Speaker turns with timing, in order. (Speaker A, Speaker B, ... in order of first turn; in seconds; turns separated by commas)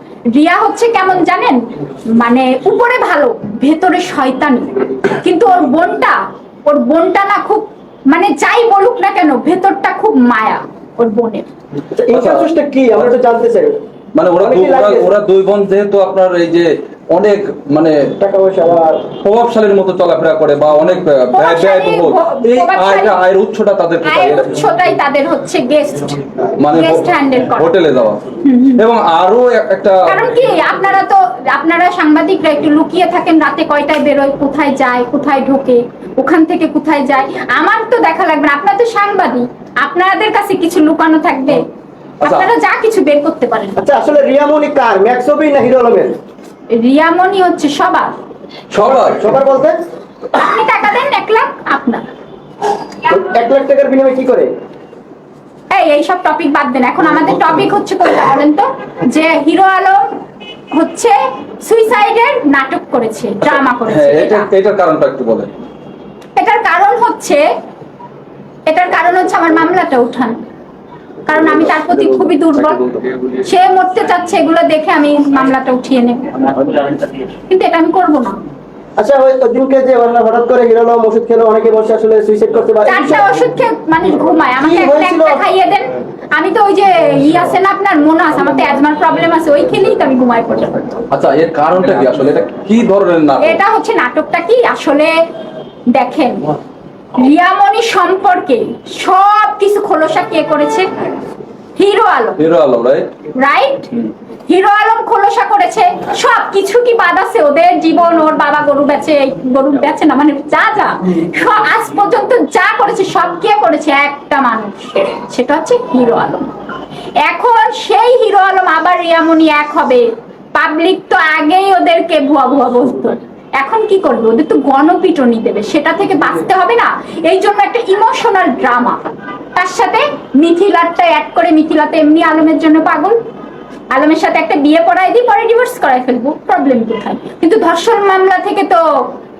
Speaker A: 0.3-11.5, Speaker B: 11.9-13.8, Speaker C: 12.1-13.1, Speaker C: 14.1-18.1, Speaker B: 14.4-15.1, Speaker B: 18.2-19.1, Speaker C: 19.2-24.6, Speaker A: 21.3-23.2, Speaker A: 24.0-27.7, Speaker C: 26.6-28.2, Speaker A: 28.4-28.8, Speaker C: 28.8-30.1, Speaker A: 30.1-41.6, Speaker A: 42.2-43.8, Speaker C: 42.2-42.5, Speaker B: 43.8-46.1, Speaker A: 46.7-48.1, Speaker C: 48.7-49.3, Speaker B: 48.9-49.8, Speaker A: 50.3-52.0, Speaker B: 53.0-54.5, Speaker A: 55.7-60.0, Speaker A: 60.7-64.5, Speaker C: 63.4-65.5, Speaker A: 66.3-67.5, Speaker A: 68.7-70.4, Speaker A: 71.3-72.8, Speaker C: 71.3-73.3, Speaker A: 73.4-76.7, Speaker A: 77.5-78.4, Speaker B: 79.0-83.3, Speaker A: 82.8-91.0, Speaker B: 84.6-85.4, Speaker C: 91.1-93.6, Speaker A: 93.4-95.1, Speaker A: 95.9-96.5, Speaker A: 97.1-100.9, Speaker A: 101.8-102.4, Speaker C: 102.4-103.1, Speaker A: 103.3-116.5, Speaker A: 117.2-129.0, Speaker A: 129.5-133.2, Speaker A: 133.9-139.2